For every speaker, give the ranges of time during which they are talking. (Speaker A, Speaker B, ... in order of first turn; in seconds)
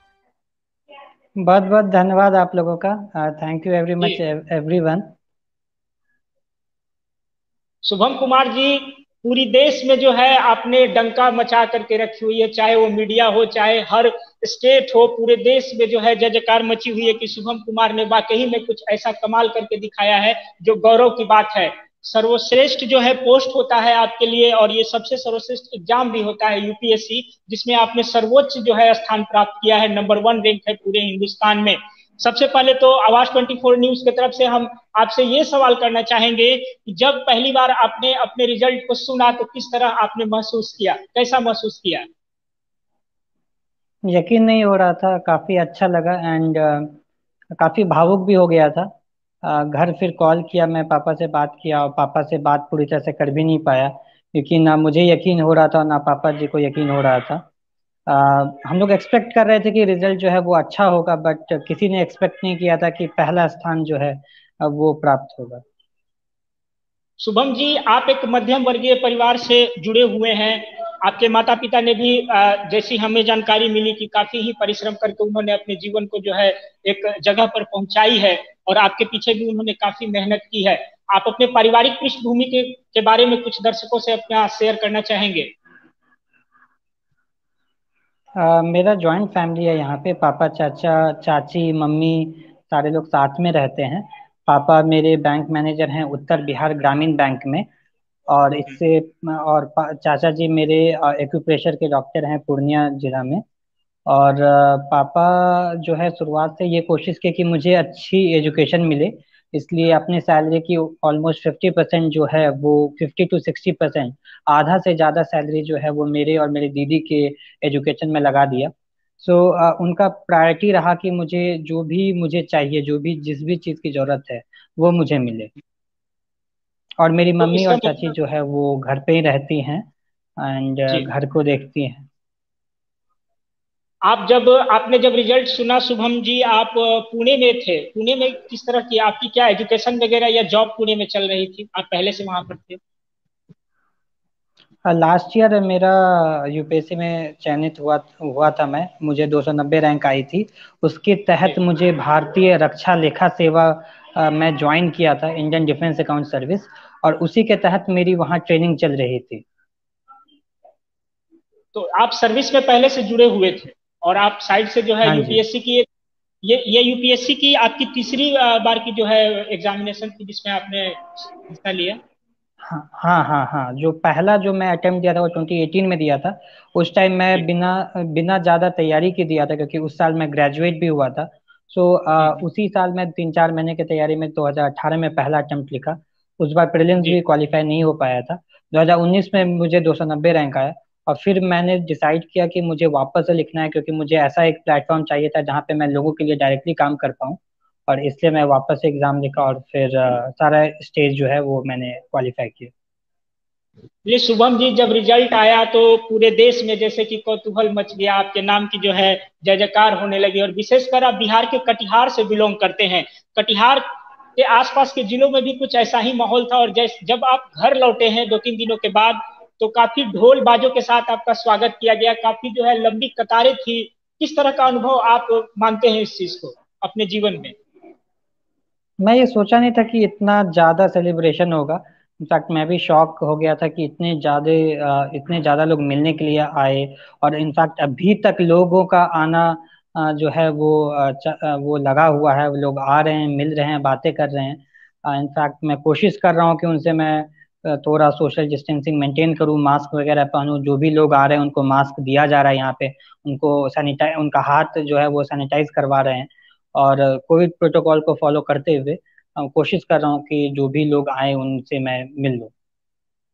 Speaker A: 1.4-5.1, 44.1-47.0, 47.6-48.9, 49.4-57.4, 58.1-65.6, 88.4-97.7, 98.3-103.4, 104.1-125.5, 127.0-132.1, 144.9-159.4, 165.1-165.4, 172.7-202.7, 229.0-262.5
Speaker B: 7.8-42.0, 67.2-85.5, 127.4-128.1, 134.1-142.8, 161.7-165.9, 166.4-172.0, 204.1-213.8, 214.4-227.6